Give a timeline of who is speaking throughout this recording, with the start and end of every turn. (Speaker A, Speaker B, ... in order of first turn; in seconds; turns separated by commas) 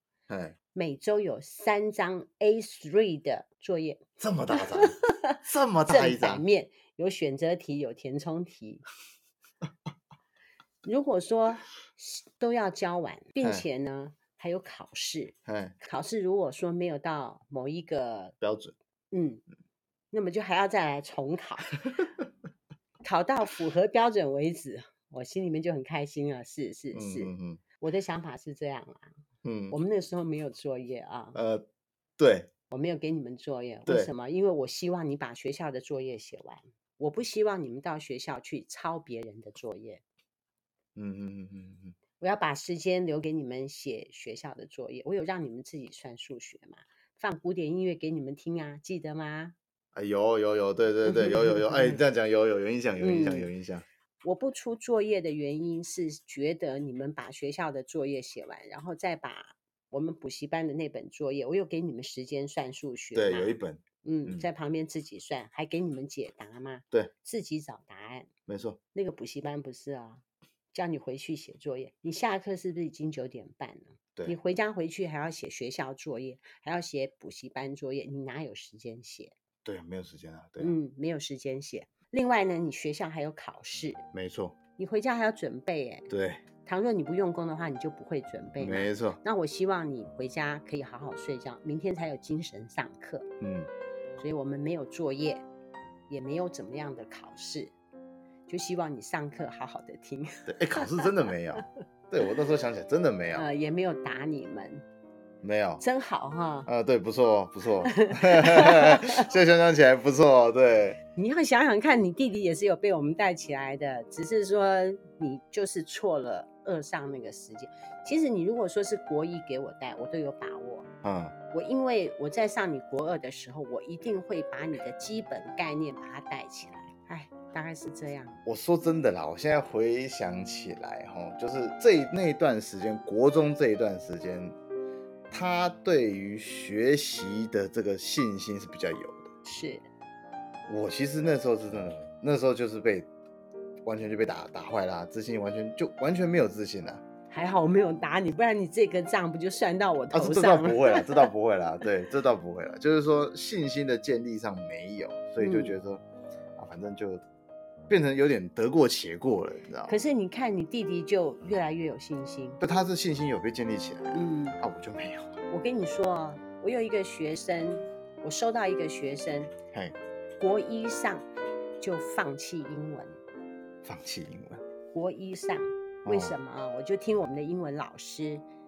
Speaker A: 0.3-0.6, Speaker B: 0.7-8.8, Speaker A: 4.2-6.4, Speaker B: 10.8-18.4, Speaker A: 15.4-15.8, Speaker A: 18.4-18.7, Speaker B: 19.1-19.4, Speaker B: 20.1-21.8, Speaker A: 22.0-22.2, Speaker B: 23.0-29.1, Speaker A: 26.9-27.6, Speaker A: 29.4-29.8, Speaker B: 29.7-31.4, Speaker A: 31.3-31.6, Speaker A: 32.2-32.5, Speaker B: 32.7-40.0, Speaker A: 41.0-42.0, Speaker B: 42.2-49.5, Speaker A: 49.9-53.8, Speaker B: 51.0-52.0, Speaker B: 53.0-53.5, Speaker B: 54.2-68.3, Speaker A: 63.1-64.5, Speaker A: 68.5-68.8, Speaker B: 68.9-79.3, Speaker A: 79.6-80.7, Speaker B: 80.6-84.0, Speaker A: 84.1-84.6, Speaker B: 84.8-86.1, Speaker A: 86.1-86.4, Speaker B: 86.6-93.3, Speaker A: 88.6-89.2, Speaker A: 93.4-93.7, Speaker B: 94.2-95.4, Speaker B: 96.1-97.7, Speaker B: 98.5-101.7, Speaker A: 100.5-103.5, Speaker B: 103.3-104.8, Speaker A: 105.4-105.8, Speaker B: 105.8-106.7, Speaker A: 106.7-111.0, Speaker B: 107.8-109.3, Speaker B: 111.2-120.8, Speaker A: 121.0-121.3, Speaker B: 121.5-128.4, Speaker A: 128.4-134.5, Speaker A: 135.3-139.3, Speaker B: 139.4-139.8, Speaker A: 140.7-143.1, Speaker A: 143.8-147.0, Speaker B: 147.3-151.3, Speaker A: 150.1-156.0, Speaker B: 155.4-155.7, Speaker A: 156.6-157.2, Speaker A: 157.9-160.0, Speaker B: 159.9-162.6, Speaker A: 162.6-165.4, Speaker B: 164.1-164.6, Speaker B: 165.5-169.5, Speaker B: 170.4-171.2, Speaker B: 171.8-173.2, Speaker A: 173.8-174.6, Speaker B: 174.9-178.4, Speaker A: 176.0-176.4